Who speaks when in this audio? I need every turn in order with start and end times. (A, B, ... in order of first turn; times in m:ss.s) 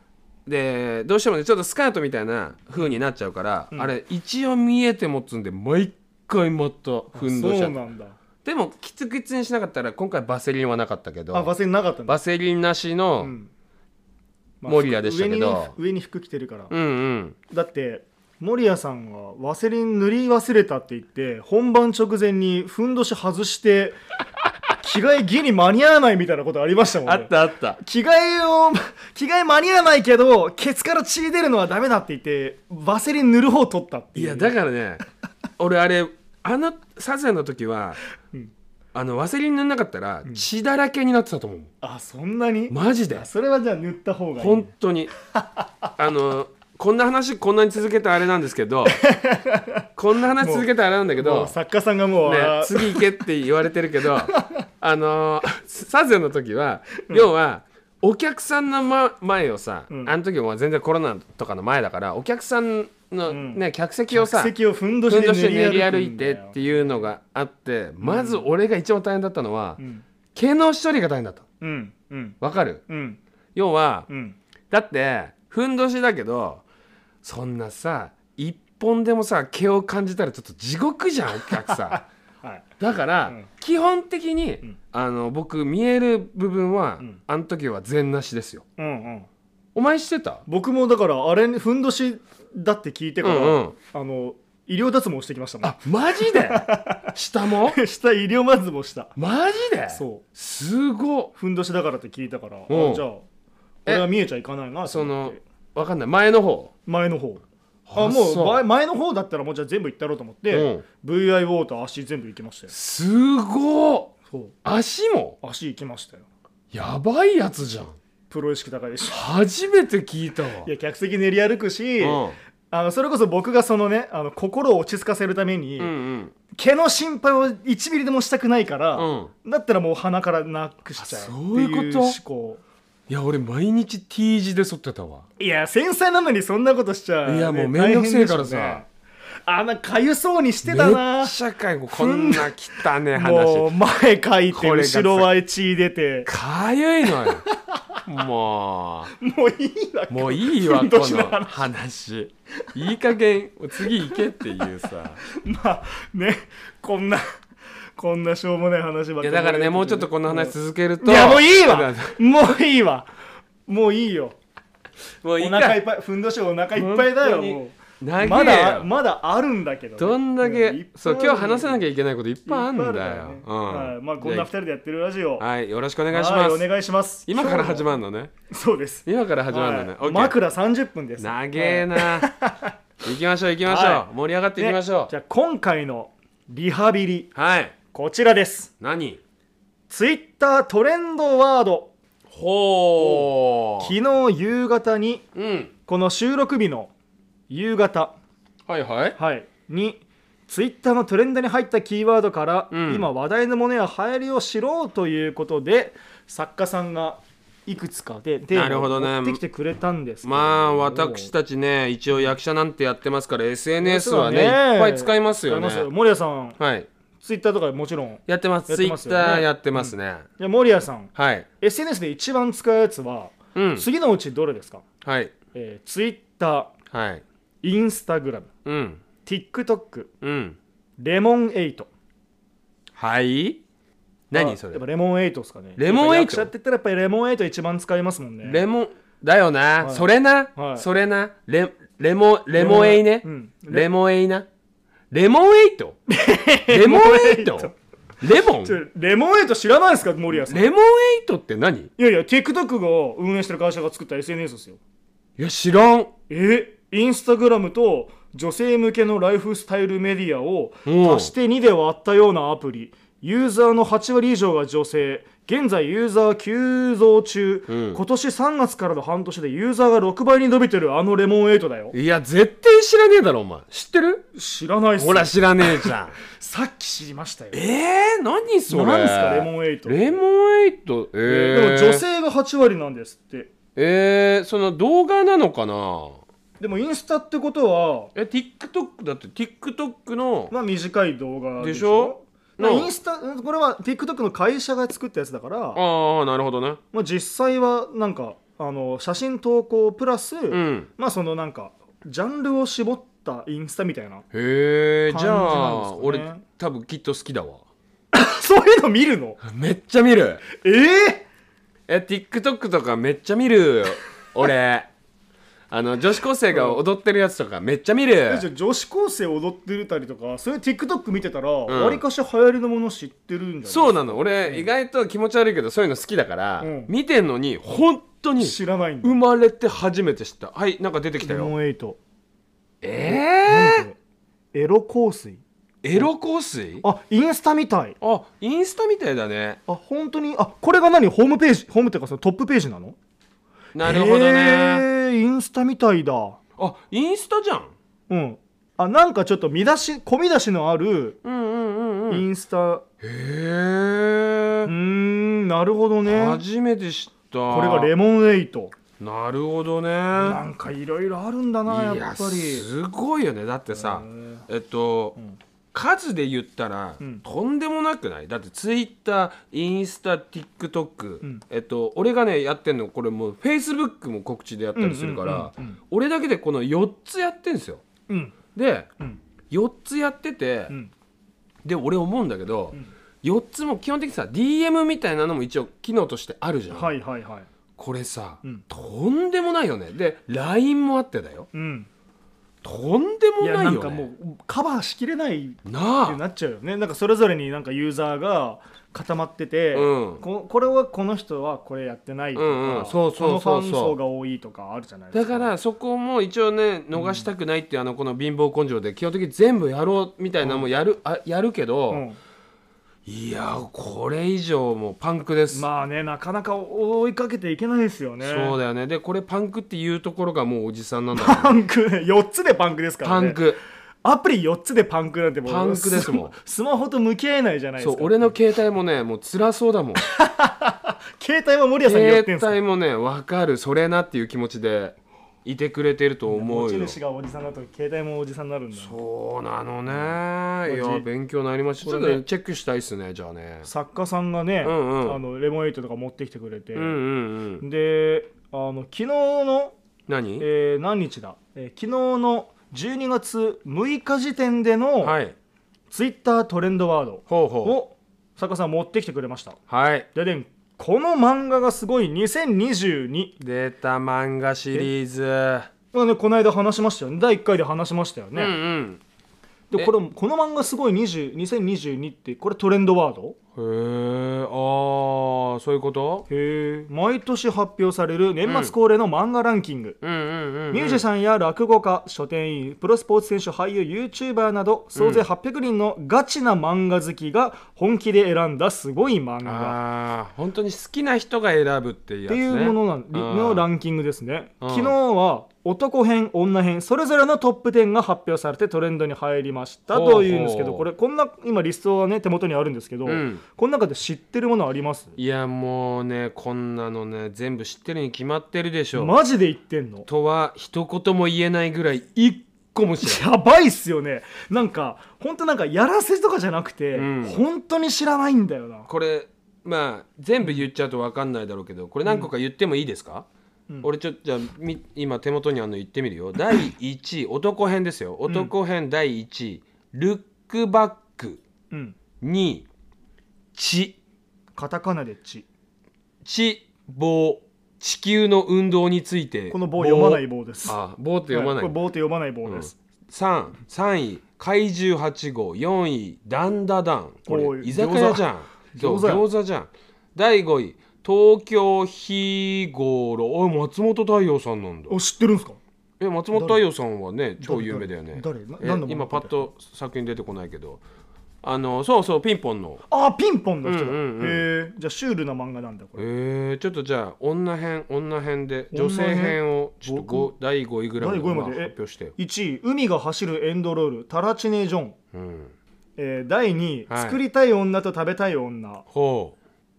0:00.4-0:07.7 A
0:07.1-0:08.2 B
0:08.4-0:11.5 A
0:11.3-0:12.2 B
0:12.1-0:13.3 A
0:13.2-0:13.5 B
0:14.6-0:16.7 B
0:14.7-0:15.7 A
0:16.7-0:17.4 A
0:17.5-0:24.0 B
0:24.8-0:34.5 B
0:27.0-0:27.8 A
0:34.2-0:35.0 A
0:35.6-0:38.0 A
0:38.9-0:41.7 A
0:41.8-0:44.7 B
0:42.7-0:43.3 A
0:44.4-0:45.1 A
0:45.4-0:45.9 B
0:46.0-0:49.0 A
0:48.9-0:49.9 B
0:50.0-0:51.5 A
0:50.4-0:53.0 B
0:52.2-1:04.5 A
0:54.3-0:54.6 B
1:03.3-1:06.6 B
1:05.1-1:09.8 A
1:08.0-1:08.4 B
1:09.8-1:10.0 B
1:10.3-1:11.4 A
1:11.6-1:12.4 B
1:12.4-1:12.8 A
1:12.9-1:13.2 B
1:13.5-1:14.1 A
1:14.1-1:14.4 B
1:14.7-1:16.6 A
1:17.2-1:22.0 A
1:21.5-1:22.6 B
1:22.8-1:28.6 A
1:28.8-1:29.3 B
1:29.7-1:30.4 A
1:30.5-1:37.1 B
1:33.2-1:33.7 A
1:35.6-1:37.8 A
1:37.6-1:39.1 B
1:39.2-1:41.3 A
1:39.9-1:40.2 B
1:41.3-1:43.2 B
1:42.7-1:43.0 A
1:43.8-1:45.4 B
1:44.8-1:46.7 A
1:46.8-1:47.4 B
1:47.9-1:48.6 A
1:47.9-1:52.7 B
1:50.5-1:50.8 A
1:52.7-1:54.1 A
1:54.3-1:54.5 B
1:54.6-1:55.4 A
1:55.4-1:56.2 B
1:56.7-1:58.0 A
1:58.3-1:59.2 B
1:59.1-2:00.7 A
2:00.6-2:05.9 B
2:02.0-2:02.4 A
2:05.8-2:06.3 A
2:06.5-2:12.6 B
2:09.0-2:09.3 A
2:11.0-2:12.2 A
2:13.1-2:15.2 A
2:15.4-2:18.9 B
2:17.2-2:18.8 A
2:19.4-2:21.3 B
2:20.6-2:23.7 A
2:21.9-2:26.3 B
2:24.5-2:25.3 A
2:26.2-2:27.4 A
2:27.4-2:28.0 B
2:28.0-2:29.1 A
2:29.1-2:31.7 B
2:30.1-2:35.2 A
2:33.8-2:34.6 B
2:35.2-2:37.2 B
2:38.0-2:43.1 B
2:39.2-2:42.2 A
2:43.6-2:44.4 B
2:45.2-2:45.8 A
2:45.4-2:51.8 B
2:46.7-2:48.9 A
2:50.0-2:54.5 A
2:52.4-2:55.4 B
2:55.4-2:56.6 A
2:56.1-2:57.9 B
2:57.3-2:58.3 A
2:58.5-3:02.7 B
2:59.0-3:00.3 A
3:01.2-3:02.3 A
3:03.0-3:05.1 A
3:03.6-3:04.0 B
3:04.6-3:07.3 B
3:07.3-3:07.7 A
3:07.9-3:08.7 B
3:08.8-3:09.2 A
3:09.9-3:11.9 B
3:12.3-3:13.9 A
3:13.0-3:13.3 B
3:13.8-3:15.2 B
3:15.3-3:15.7 A
3:15.9-3:16.9 B
3:17.5-3:18.2 B
3:18.7-3:19.2 A
3:19.2-3:31.3 B
3:22.7-3:23.1 A
3:28.5-3:29.4 A
3:30.2-3:35.9 A
3:33.8-3:36.6 B
3:36.6-3:36.9 A
3:37.2-3:44.8 B
3:38.3-3:40.3 A
3:41.2-3:41.5 A
3:43.5-3:43.8 A
3:45.0-3:45.3 A
3:45.5-3:46.7 B
3:46.9-3:47.2 A
3:47.6-3:48.5 B
3:48.6-3:49.0 A
3:49.2-3:50.1 B
3:50.2-3:50.6 A
3:51.0-3:51.9 B
3:53.0-3:53.6 A
3:54.3-3:54.8 A
3:54.3-3:58.6 B
3:55.8-3:56.5 A
3:58.4-4:04.5 A
3:59.8-4:00.8 B
4:02.5-4:03.9 B
4:05.1-4:06.0 A
4:06.1-4:07.7 B
4:06.7-4:08.8 A
4:08.6-4:10.6 B
4:10.4-4:11.9 A
4:12.0-4:14.8 B
4:15.4-4:16.1 A
4:16.3-4:31.9 B
4:20.8-4:21.3 A
4:27.7-4:28.0 A
4:31.9-4:34.2 A
4:34.3-4:37.6 B
4:35.0-4:36.2 A
4:37.5-4:42.0 A
4:38.7-4:40.2 B
4:41.2-4:43.5 B
4:43.8-4:46.2 A
4:46.6-4:48.1 B
4:48.1-4:50.5 A
4:50.5-4:55.8 B
4:51.6-4:52.9 A
4:55.7-4:56.8 A
4:56.9-5:04.2 B
5:00.5-5:00.9 A
5:04.3-5:07.6 A
5:05.1-5:06.4 B
5:08.1-5:09.4 B
5:09.4-5:10.4 A
5:10.5-5:11.2 B
5:11.9-5:14.9 A
5:15.7-5:18.5 A
5:16.5-5:16.8 B
5:18.3-5:24.7 B
5:21.7-5:22.0 A
5:23.6-5:31.5 A
5:26.6-5:26.9 B
5:28.4-5:29.2 B
5:31.2-5:32.0 B
5:32.8-5:33.8 A
5:33.0-5:34.0 B
5:34.5-5:35.4 B
5:35.8-5:36.8 A
5:36.8-5:38.0 B
5:38.0-5:39.6 A
5:39.7-5:43.0 B
5:43.7-5:44.8 A
5:43.8-5:46.4 B
5:46.6-5:47.7 A
5:48.1-5:51.2 B
5:51.2-5:52.2 A
5:52.1-5:52.8 B
5:53.0-5:54.7 A
5:54.6-5:56.4 B
5:56.0-5:57.9 A
5:57.5-5:58.7 B
5:59.0-6:00.4 A
6:00.1-6:02.7 B
6:01.7-6:05.2 A
6:03.7-6:04.4 B
6:05.7-6:17.8 A
6:14.7-6:15.8 B
6:18.1-6:18.3 B
6:18.5-6:18.9 A
6:19.5-6:20.7 A
6:21.6-6:26.9 A
6:26.7-6:27.5 B
6:27.8-6:31.5 A
6:31.5-6:31.9 B
6:32.6-6:34.0 A
6:33.4-6:45.5 B
6:35.6-6:36.2 A
6:39.7-6:40.2 A
6:42.3-6:44.0 A
6:45.1-6:52.0 A
6:46.9-6:47.2 B
6:50.4-6:50.7 B
6:51.9-6:52.2 B
6:53.0-6:55.6 A
6:55.5-6:58.6 B
6:58.2-7:01.5 A
7:01.1-7:03.4 B
7:03.0-7:03.6 A
7:04.0-7:08.3 B
7:05.4-7:06.3 A
7:07.8-7:10.0 A
7:10.0-7:12.6 B
7:11.8-7:17.0 A
7:16.3-7:18.9 B
7:18.7-7:23.7 A
7:19.9-7:20.1 B
7:20.7-7:21.0 B
7:21.8-7:22.2 B
7:23.6-7:27.0 B
7:24.6-7:25.2 A
7:26.7-7:27.6 A
7:27.6-7:29.7 B
7:30.1-7:30.4 A
7:30.4-7:35.1 B
7:35.0-7:35.3 A
7:35.9-7:39.6 B
7:37.3-7:37.8 A
7:39.7-7:40.1 A
7:40.1-7:43.4 B
7:43.4-7:45.7 A
7:45.9-7:48.6 B
7:48.3-7:49.0 A
7:49.7-7:53.4 B
7:53.6-7:56.2 A
7:56.3-8:00.0 B
7:58.4-7:58.7 A
8:00.0-8:01.0 A
8:00.7-8:09.8 B
8:04.9-8:05.2 A
8:09.4-8:13.7 A
8:12.3-8:25.2 B
8:14.6-8:14.9 A
8:19.9-8:20.8 A
8:23.0-8:23.4 A
8:25.2-8:29.1 A
8:28.9-8:30.1 B
8:30.1-8:33.2 A
8:33.0-8:38.9 B
8:36.9-8:37.4 A
8:38.9-8:43.2 A
8:43.8-8:51.4 A
8:48.3-8:48.5 B
8:51.7-8:52.0 B
8:52.2-8:52.6 A
8:53.5-8:54.0 A
8:54.6-8:55.4 B
8:56.2-9:01.7 A
8:59.5-9:00.8 B
9:01.3-9:02.8 B
9:02.5-9:14.9 A
9:07.3-9:09.2 B
9:14.9-9:15.6 B
9:16.0-9:20.8 A
9:16.3-9:16.6 B
9:17.4-9:19.4 B
9:21.4-9:22.8 A
9:22.9-9:26.0 B
9:23.6-9:24.4 A
9:26.0-9:32.1 A
9:28.7-9:30.3 B
9:31.0-9:35.0 B
9:35.1-9:35.5 A
9:36.0-9:38.8 B
9:36.9-9:37.2 A
9:38.9-9:39.4 A